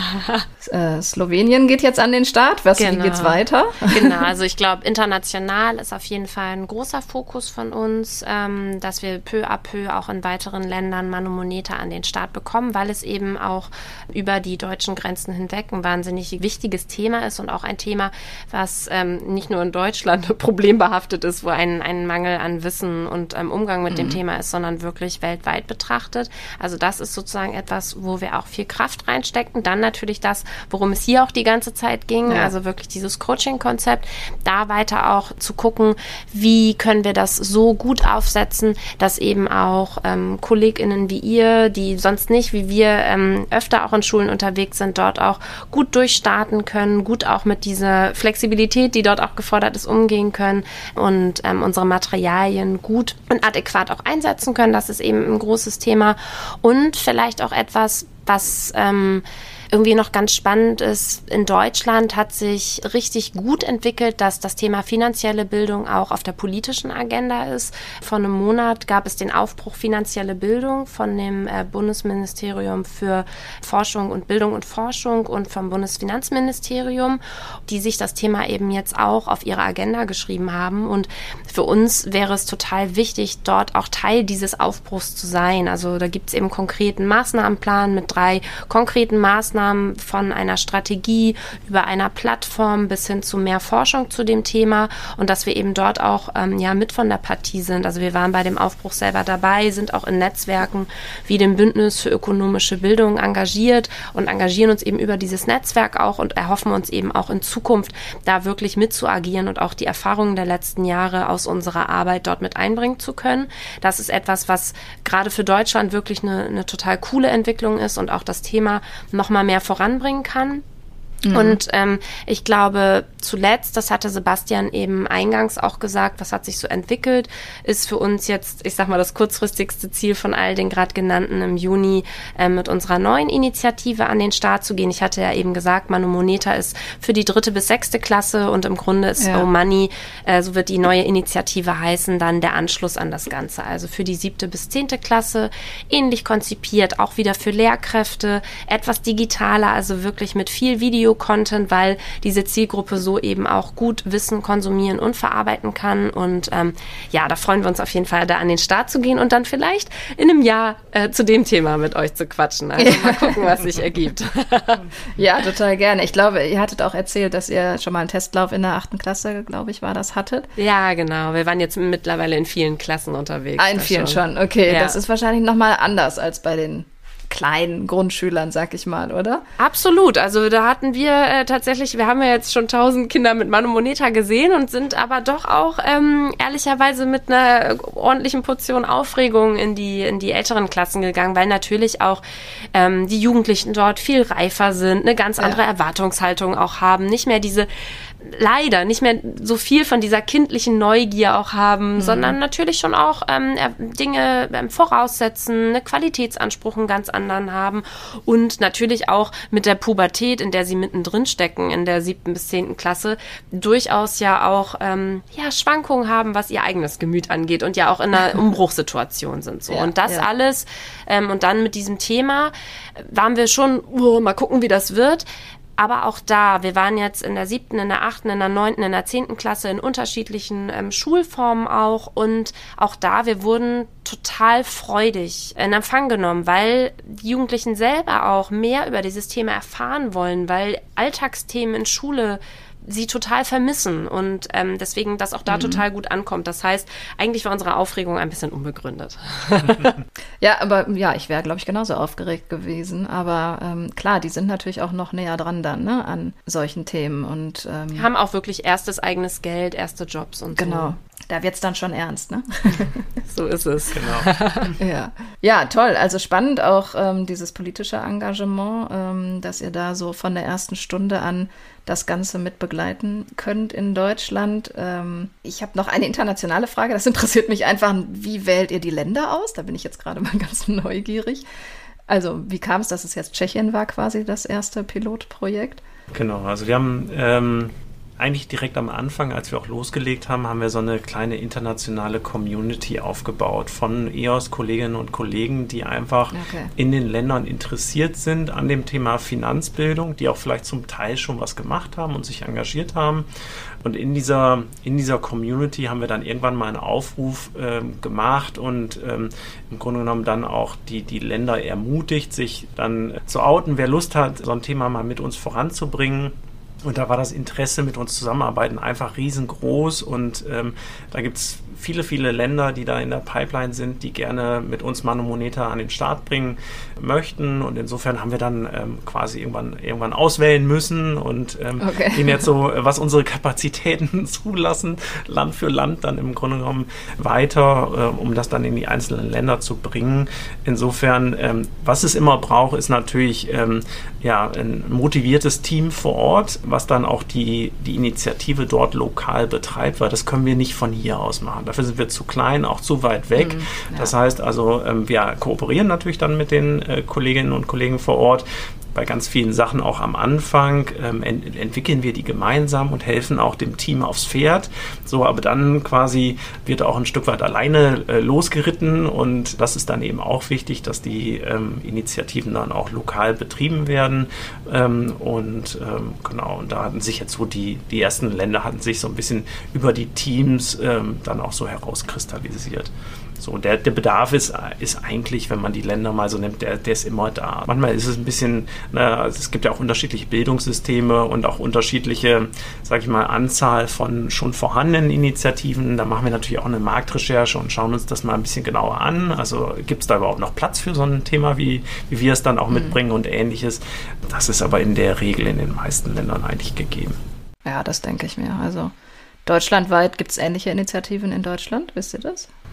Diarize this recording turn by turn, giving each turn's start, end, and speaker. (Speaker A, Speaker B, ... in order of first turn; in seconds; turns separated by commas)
Speaker A: 0.6-4.3, Speaker B: 2.8-120.6, Speaker A: 23.9-24.2, Speaker A: 32.3-32.5, Speaker A: 121.2-121.6, Speaker B: 121.3-164.8, Speaker A: 139.2-139.5, Speaker A: 162.8-163.4, Speaker A: 165.2-170.5, Speaker B: 170.6-175.0, Speaker A: 173.6-179.4, Speaker B: 179.6-192.2, Speaker B: 192.7-197.7, Speaker B: 198.2-225.3, Speaker A: 202.0-202.4, Speaker A: 219.7-220.3, Speaker B: 225.8-249.9, Speaker A: 245.5-245.8, Speaker A: 250.4-258.1, Speaker B: 257.9-260.9, Speaker A: 260.6-263.1, Speaker B: 263.2-264.7, Speaker C: 263.9-264.3, Speaker A: 264.8-281.4, Speaker A: 282.1-285.8, Speaker C: 286.1-303.3, Speaker A: 296.3-296.7, Speaker C: 303.8-407.2, Speaker A: 331.8-332.4, Speaker A: 353.4-354.1, Speaker A: 402.7-403.0, Speaker A: 407.7-408.9, Speaker A: 409.5-412.5